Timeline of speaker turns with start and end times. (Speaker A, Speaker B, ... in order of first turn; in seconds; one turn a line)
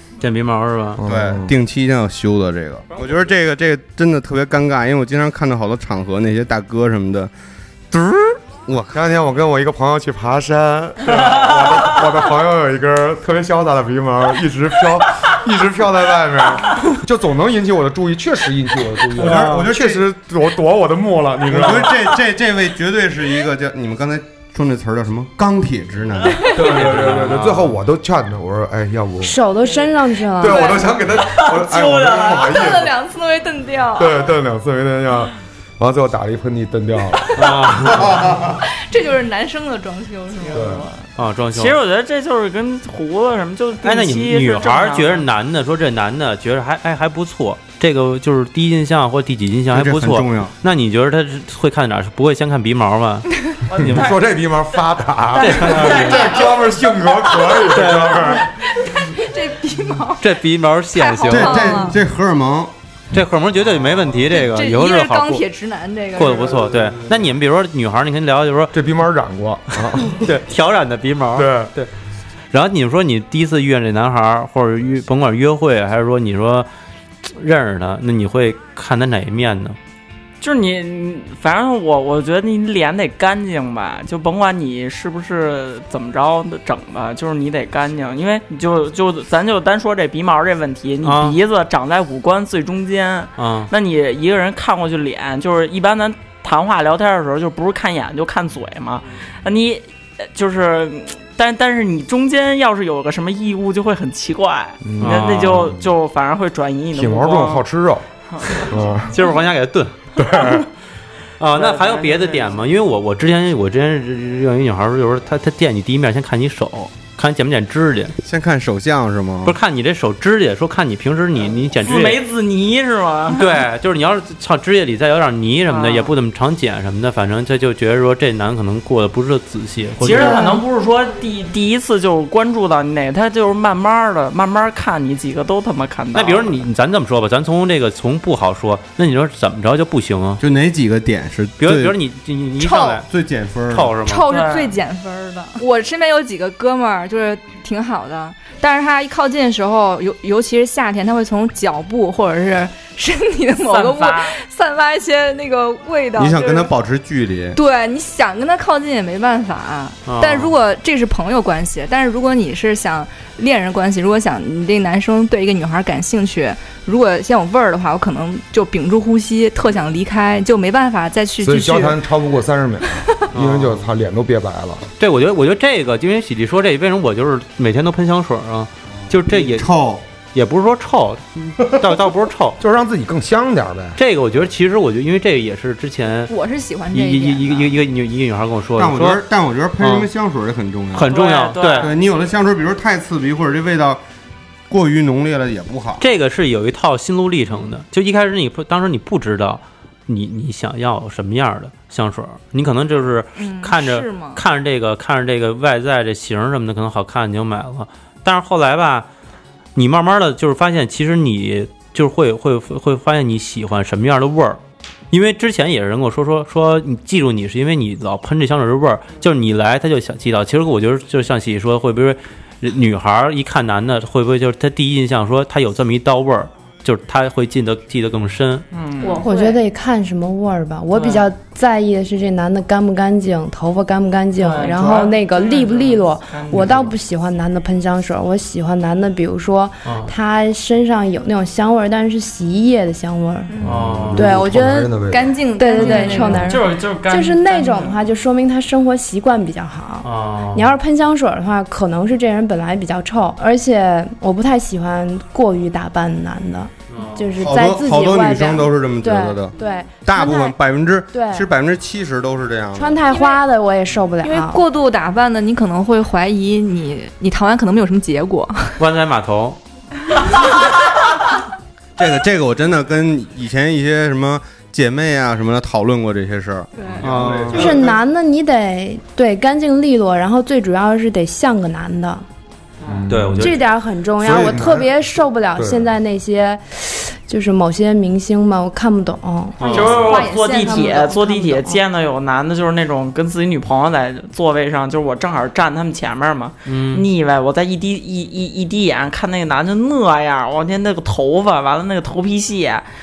Speaker A: 0.2-1.0
Speaker B: 1.0-1.5
Speaker C: 1.1-7.3
Speaker C: 7.9-8.9
Speaker B: 8.9-22.0
Speaker C: 19.2-20.0
Speaker A: 19.2-19.6
Speaker C: 21.4-26.9
Speaker B: 26.5-29.4
Speaker A: 26.8-27.7
Speaker D: 29.2-30.8
Speaker B: 30.4-32.9
Speaker E: 30.4-30.9
Speaker F: 31.4-32.4
Speaker E: 31.7-34.3
Speaker B: 34.0-38.3
Speaker A: 37.3-38.2
Speaker E: 38.6-40.7
Speaker F: 40.3-45.2
Speaker B: 40.5-40.9
Speaker A: 41.2-41.8
Speaker A: 43.8-54.1
Speaker C: 49.7-50.5
Speaker F: 53.7-54.2
Speaker B: 53.8-58.5
Speaker A: 55.4-56.3
Speaker F: 55.4-56.6
Speaker A: 57.7-58.4
Speaker E: 58.4-60.2
Speaker A: 60.2-61.9
Speaker E: 60.9-62.0
Speaker C: 61.2-62.7
Speaker A: 63.1-65.4
Speaker E: 64.3-66.6
Speaker A: 66.2-68.8
Speaker B: 68.7-70.2
Speaker A: 69.8-71.9
Speaker B: 71.3-71.7
Speaker A: 72.5-76.7
Speaker A: 77.2-79.8
Speaker F: 80.4-107.6
Speaker A: 91.0-91.4
Speaker A: 93.4-93.7
Speaker B: 104.8-105.9
Speaker A: 105.0-105.8
Speaker B: 106.9-109.2
Speaker F: 108.3-108.7
Speaker A: 109.1-110.6
Speaker B: 110.2-110.7
Speaker A: 111.4-118.1
Speaker F: 111.5-112.6
Speaker C: 118.2-119.6
Speaker A: 119.4-122.2
Speaker F: 121.8-123.6
Speaker A: 123.3-130.4
Speaker F: 125.7-126.1
Speaker F: 130.0-136.6
Speaker A: 136.1-140.4
Speaker C: 140.4-142.0
Speaker A: 141.6-143.1
Speaker E: 142.6-143.0
Speaker C: 143.0-143.9
Speaker A: 143.7-144.2
Speaker E: 144.0-156.7
Speaker F: 144.2-144.8
Speaker F: 153.6-154.3
Speaker C: 156.2-157.6
Speaker E: 157.5-172.0
Speaker A: 160.1-160.5
Speaker B: 171.4-174.8
Speaker A: 173.3-173.9
Speaker A: 175.0-179.7
Speaker C: 179.2-180.0
Speaker A: 180.3-182.6
Speaker B: 182.6-184.0
Speaker A: 184.0-186.3
Speaker E: 186.3-187.7
Speaker A: 186.9-189.2
Speaker C: 188.8-191.2
Speaker A: 189.8-190.1
Speaker A: 190.9-191.9
Speaker F: 191.0-191.9
Speaker C: 191.7-194.0
Speaker C: 194.7-196.0
Speaker A: 196.0-209.1
Speaker E: 203.3-204.4
Speaker A: 209.7-214.6
Speaker A: 215.1-228.6
Speaker F: 228.7-229.2
Speaker E: 229.0-229.6
Speaker D: 229.2-245.0
Speaker F: 230.9-231.2
Speaker F: 234.4-236.9
Speaker A: 239.8-240.1
Speaker B: 243.6-245.4
Speaker A: 243.6-244.3
Speaker E: 245.1-246.5
Speaker D: 245.5-260.6
Speaker F: 245.7-248.0
Speaker A: 250.0-250.7
Speaker A: 256.9-257.3
Speaker C: 257.4-263.0
Speaker D: 261.1-261.5
Speaker D: 262.7-264.6
Speaker E: 263.1-263.4
Speaker E: 264.2-268.8
Speaker A: 268.8-269.6
Speaker C: 272.0-277.9
Speaker A: 277.0-277.6
Speaker D: 277.5-282.2
Speaker F: 282.8-283.1
Speaker B: 282.9-283.6
Speaker A: 283.1-283.6
Speaker D: 283.3-291.7
Speaker B: 284.2-284.9
Speaker B: 285.5-285.9
Speaker A: 289.6-290.1
Speaker F: 289.6-302.9
Speaker E: 289.8-291.1
Speaker A: 296.6-297.1